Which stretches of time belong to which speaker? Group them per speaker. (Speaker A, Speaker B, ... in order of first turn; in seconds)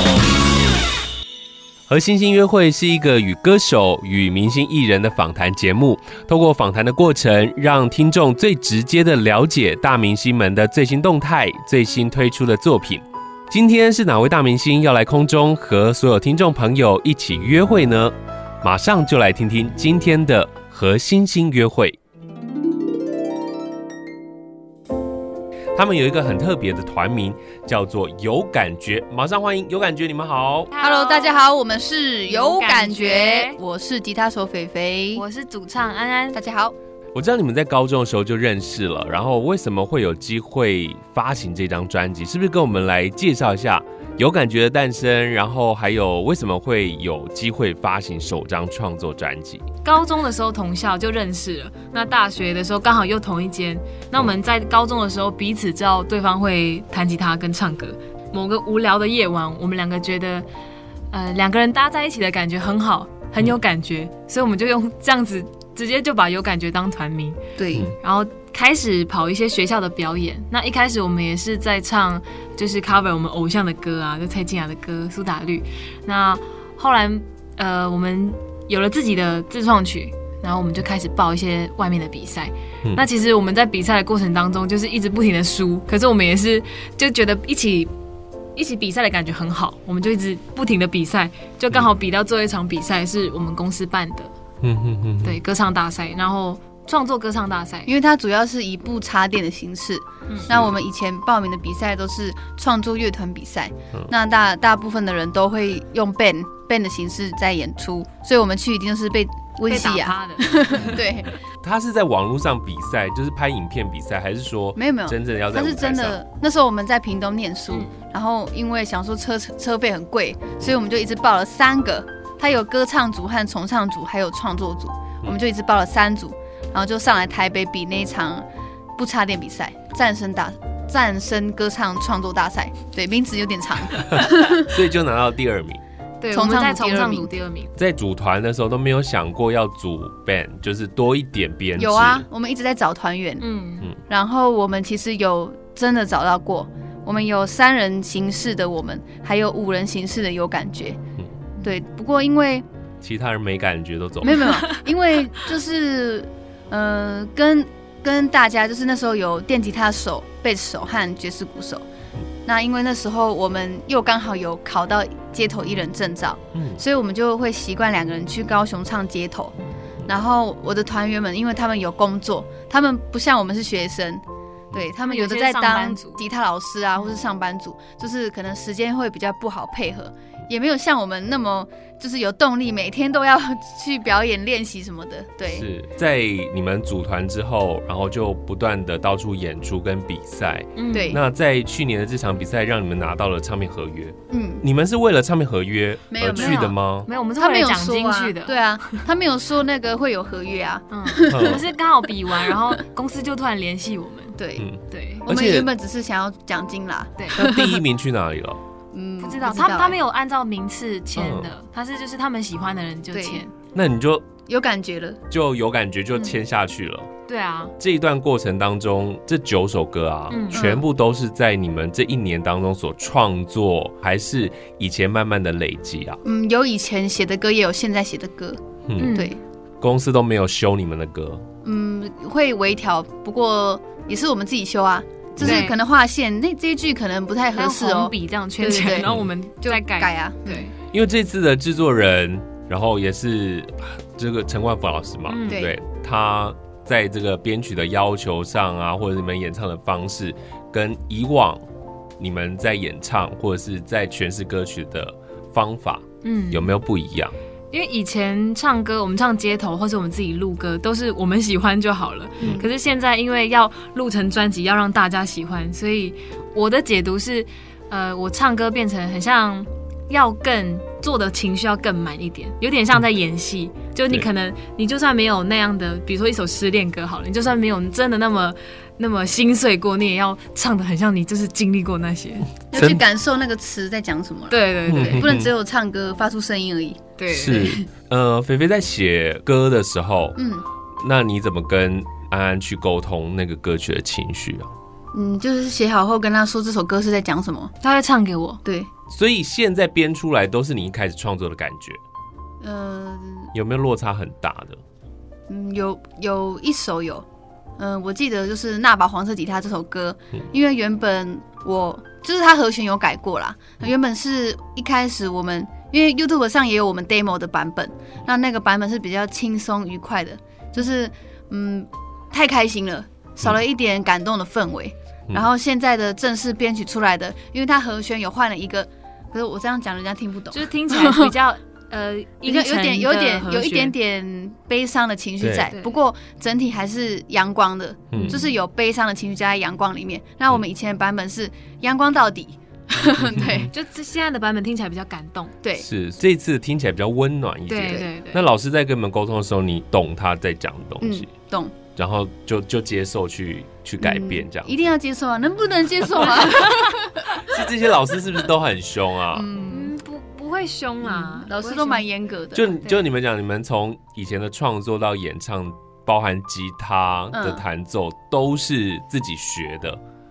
Speaker A: 1.9-22.0, 25.8-30.7, 37.1-49.6, 94.6-95.4, 100.4-100.8, 111.6-116.2, 133.9-135.8, 137.8-142.2, 153.0-154.4, 166.5-166.8, 185.5-197.1, 201.3-201.6, 204.6-205.7, 207.4-208.6, 211.2-211.5, 213.7-214.3, 215.3-217.1, 217.8-226.2, 228.9-229.1, 229.8-231.4, 235.4-235.6, 239.0-239.3, 240.9-251.6, 252.2-257.3, 282.7-283.0, 284.9-285.5, 287.3-290.4, 291.0-294.7, 299.1-302.0, 303.5-304.8, 335.4-335.7, 338.1-338.4, 343.2-343.7, 345.8-351.3, 352.0-354.7, 357.4-359.5, 362.5-370.0
Speaker B: 30.7-31.5, 32.3-33.6, 35.1-36.4, 49.8-60.5, 61.1-67.4, 68.0-87.9, 88.6-94.3, 95.2-97.9, 109.7-110.8, 136.2-137.7, 143.4-143.9, 154.3-154.8, 175.0-176.2, 190.8-191.1, 196.3-199.1, 200.9-204.4, 204.9-205.3, 207.2-207.4, 209.2-213.5, 217.3-217.7, 220.3-220.8, 229.0-229.3, 235.4-235.8, 237.6-240.7, 245.3-245.6, 256.2-256.7, 257.7-282.5, 284.5-285.3, 287.2-287.8, 297.8-298.6, 330.5-334.0, 338.1-338.5, 343.7-345.6, 347.7-348.4, 359.7-362.1
Speaker C: 30.8-35.2, 36.3-36.8, 67.6-67.9, 97.9-111.4, 114.8-134.8, 136.3-137.3, 141.8-143.4, 144.1-151.0, 151.6-152.7, 154.2-161.8, 162.4-169.5, 170.1-185.7, 190.9-191.2, 194.3-194.6, 196.1-196.8, 197.4-201.6, 204.4-204.7, 205.3-207.8, 208.9-210.0, 213.1-213.4, 214.5-215.2, 220.5-220.8, 226.2-229.4, 231.6-240.7, 245.5-245.8, 262.4-262.7, 282.7-287.0, 290.4-290.7, 295.1-297.7, 298.6-298.9, 302.6-303.5, 305.5-307.3, 307.8-331.3, 332.4-343.7, 345.6-345.9, 351.0-351.8, 354.0-357.7, 359.3-359.9, 361.0-362.8, 367.3-367.6